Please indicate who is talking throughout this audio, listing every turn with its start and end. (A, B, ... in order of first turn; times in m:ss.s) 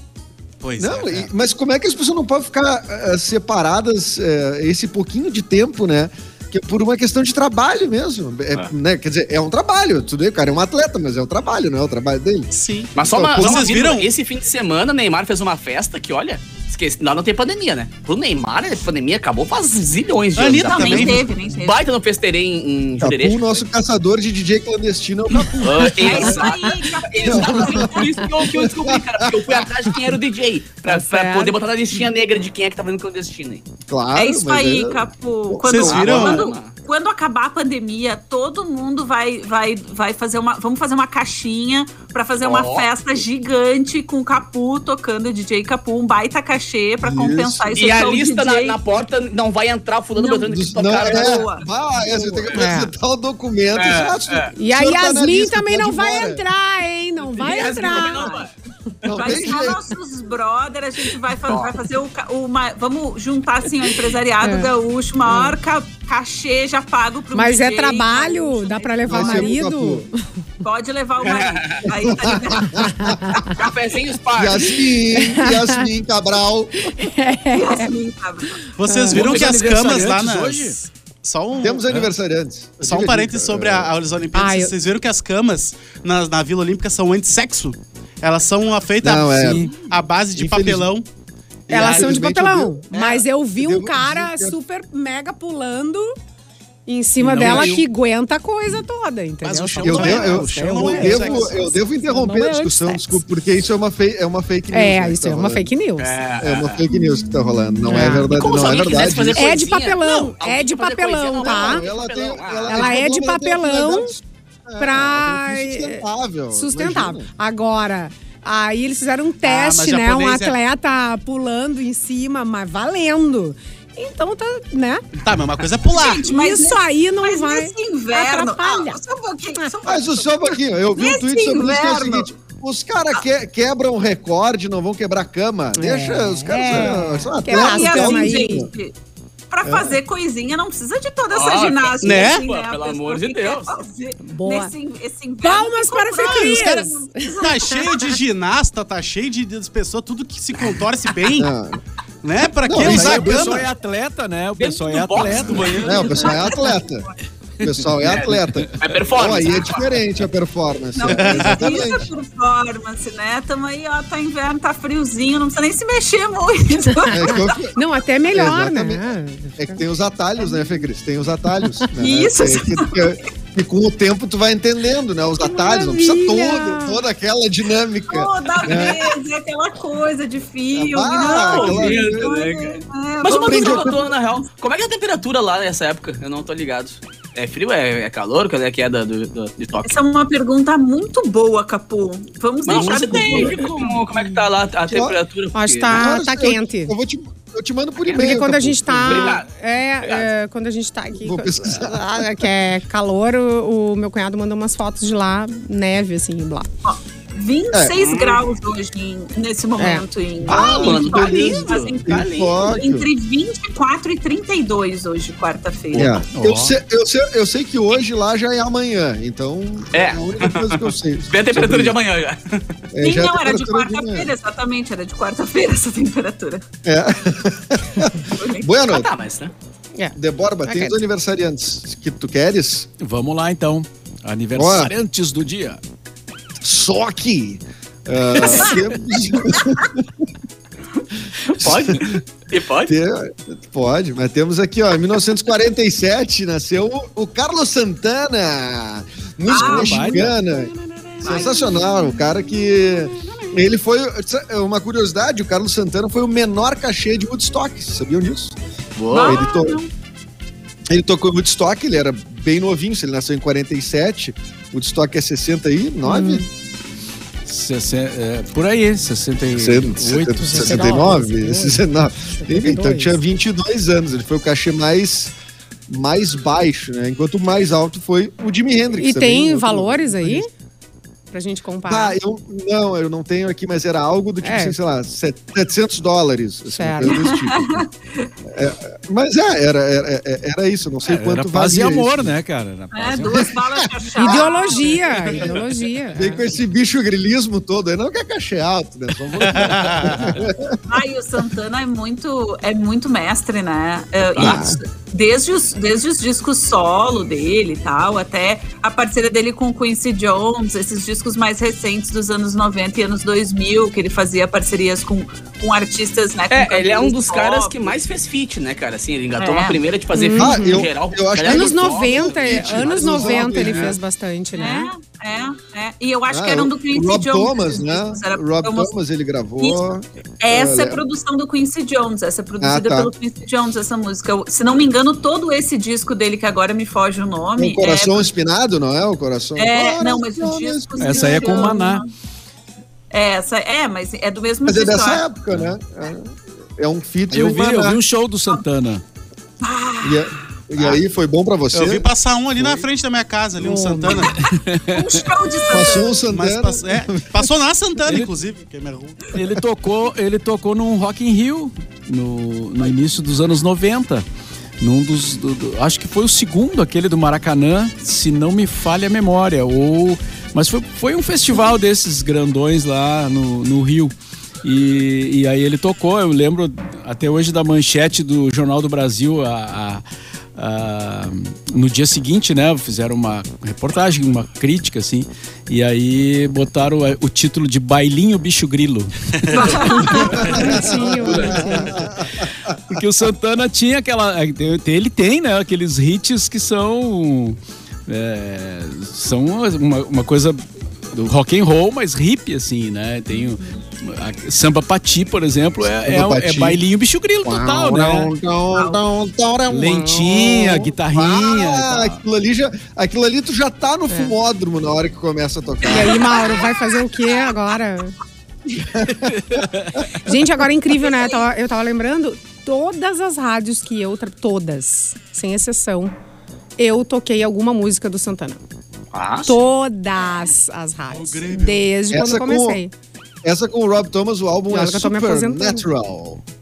0:00.6-0:01.3 A
0:00.8-0:13.8 B
0:12.5-0:14.1 A
0:13.0-0:23.6 C
0:20.4-0:21.3 A
0:20.7-0:21.8 D
0:23.0-0:26.5 B
0:25.6-0:33.6 C
0:26.0-0:28.2 D
0:27.2-0:29.7 B
0:30.8-0:31.6 E
0:33.9-0:36.3 B
0:34.2-0:48.8 D
0:35.6-0:36.5 A
0:35.9-0:36.7 C
0:42.4-0:42.9 C
0:47.0-0:47.9 B
0:47.7-0:51.5 C
0:50.2-0:51.6 D
0:50.5-0:56.4 B
0:52.5-0:52.9 E
0:53.8-0:54.5 C
0:54.6-0:58.4 E
0:57.3-0:58.5 C
0:57.8-0:58.4 D
0:59.0-0:59.8 B
0:59.1-1:09.6 D
1:01.5-1:01.7 C
1:04.4-1:04.7 E
1:05.3-1:05.6 E
1:07.3-1:10.1 E
1:09.1-1:10.1 B
1:10.6-1:13.5 D
1:11.2-1:11.8 C
1:11.9-1:13.4 B
1:13.0-1:13.4 E
1:13.5-1:14.8 C
1:14.4-1:16.7 B
1:15.2-1:15.8 E
1:17.0-1:17.9 E
1:17.5-1:18.6 D
1:18.8-1:22.1 A
1:18.8-1:19.2 E
1:19.1-1:20.8 F
1:21.6-1:23.9 B
1:22.8-1:31.1 A
1:24.4-1:24.7 E
1:29.0-1:29.7 B
1:29.3-1:29.8 F
1:30.4-1:30.8 F
1:30.4-1:30.8 B
1:31.7-1:32.8 B
1:31.7-1:36.1 E
1:31.8-1:32.1 A
1:32.9-1:33.2 A
1:33.6-1:34.6 B
1:36.9-1:43.2 E
1:37.2-1:37.8 F
1:37.4-1:37.8 A
1:39.4-1:41.2 F
1:39.8-1:41.7 A
1:39.8-1:45.7 B
1:44.7-1:46.1 E
1:46.0-1:46.8 C
1:46.4-1:49.6 B
1:46.9-1:48.0 D
1:47.9-1:48.3 E
1:48.3-1:52.9 C
1:49.4-1:51.8 E
1:50.0-1:50.3 A
1:51.4-1:57.3 B
1:52.7-1:54.1 E
1:54.8-2:05.0 E
1:59.4-2:00.5 A
2:05.2-2:06.3 A
2:06.0-2:12.3 D
2:06.3-2:09.0 E
2:09.9-2:18.7 B
2:15.8-2:18.7 E
2:17.5-2:18.9 D
2:19.5-2:27.9 D
2:19.6-2:20.0 B
2:21.3-2:23.8 C
2:22.0-2:22.4 A
2:24.3-2:24.7 E
2:25.4-2:27.5 E
2:26.5-2:26.9 A
2:27.4-2:31.5 A
2:31.4-2:31.8 B
2:32.2-2:33.7 A
2:32.6-2:33.7 B
2:32.8-2:36.2 F
2:34.6-2:36.6 C
2:35.8-2:37.1 B
2:35.9-2:37.1 D
2:37.6-2:42.1 B
2:38.0-2:39.9 C
2:41.0-2:47.5 D
2:41.1-2:41.7 A
2:47.0-2:49.8 E
2:47.1-2:47.8 B
2:48.3-2:49.0 B
2:49.6-2:59.0 B
2:52.0-2:53.1 D
2:55.4-2:57.0 E
2:58.1-3:04.1 D
3:00.7-3:02.3 B
3:01.3-3:09.9 C
3:03.3-3:04.1 B
3:09.8-3:14.0 D
3:12.6-3:16.2 C
3:13.1-3:13.6 A
3:14.9-3:15.2 B
3:15.5-3:16.9 E
3:15.9-3:19.4 B
3:18.1-3:26.7 E
3:19.0-3:19.5 C
3:20.0-3:20.3 C
3:21.2-3:22.5 B
3:26.8-3:36.2 D
3:28.0-3:28.4 C
3:29.8-3:30.0 E
3:30.4-3:33.1 B
3:30.5-3:32.6 C
3:35.9-3:42.0 B
3:36.0-3:36.8 F
3:39.9-3:42.7 C
3:42.9-3:44.3 B
3:43.0-3:46.6 D
3:46.8-3:49.1 B
3:48.4-3:48.7 D
3:48.9-3:49.5 C
3:50.2-3:52.9 B
3:50.6-3:51.0 E
3:53.0-3:55.8 F
3:54.6-3:54.9 B
3:56.6-4:00.1 B
4:01.5-4:02.9 C
4:01.6-4:02.2 B
4:02.9-4:18.6 B
4:09.5-4:10.2 D
4:09.5-4:11.7 F
4:11.2-4:11.8 D
4:19.0-4:19.5 C
4:19.1-4:19.9 D
4:19.2-4:19.8 B
4:20.9-4:26.4 B
4:26.0-4:26.4 E
4:27.5-4:31.2 F
4:29.6-4:35.3 B
4:30.4-4:33.2 E
4:35.9-4:40.5 B
4:39.0-4:40.5 E
4:41.3-4:42.2 E
4:41.9-4:47.8 B
4:44.4-4:44.8 E
4:46.7-4:47.2 E
4:47.0-4:48.3 D
4:48.5-4:52.3 B
4:51.1-4:53.5 F
4:52.9-4:55.1 D
4:53.3-4:54.5 B
4:54.2-4:56.4 E
4:55.3-4:55.6 B
4:56.1-5:00.8 B
4:59.4-5:00.3 A
5:00.9-5:17.9 D
5:04.4-5:04.6 C
5:04.4-5:04.8 B
5:16.5-5:23.9 C
5:19.4-5:19.8 D
5:20.1-5:20.8 E
5:20.4-5:24.0 B
5:21.4-5:24.9 E
5:24.5-5:28.9 D
5:26.3-5:31.0 B
5:30.4-5:38.3 D
5:32.6-5:33.1 B
5:37.6-5:41.8 B
5:39.6-5:42.1 D
5:41.0-5:42.0 F
5:43.1-5:45.3 D
5:44.6-5:48.0 B
5:47.3-5:49.0 F
5:49.6-5:50.3 D
5:50.0-5:52.1 B
5:51.7-5:54.4 A
5:52.6-5:52.8 F
5:53.6-5:54.3 E
5:54.3-5:56.3 D
5:54.4-5:55.2 F
5:55.7-5:57.4 B
5:56.3-5:59.3 A
5:59.3-6:04.2 F
6:04.8-6:20.0 F
6:20.6-6:30.4 F
6:29.4-6:29.8 A
6:29.5-6:30.5 D
6:29.6-6:30.6 C
6:30.0-6:32.0 E
6:30.3-6:33.0 B
6:31.2-6:31.6 C
6:32.9-6:48.3 F
6:43.3-6:43.8 D
6:45.8-6:46.8 B
6:47.4-6:56.5 B
6:48.7-6:49.0 D
6:49.7-6:52.2 F
6:55.9-6:58.1 E
6:58.7-7:00.0 B
6:59.2-7:00.0 F
7:00.2-7:06.1 E
7:01.0-7:01.4 D
7:06.8-7:08.6 E
7:09.1-7:09.6 C
7:09.5-7:12.9 E
7:11.1-7:11.9 A
7:12.1-7:12.8 B
7:13.4-7:16.4 B
7:14.7-7:15.8 E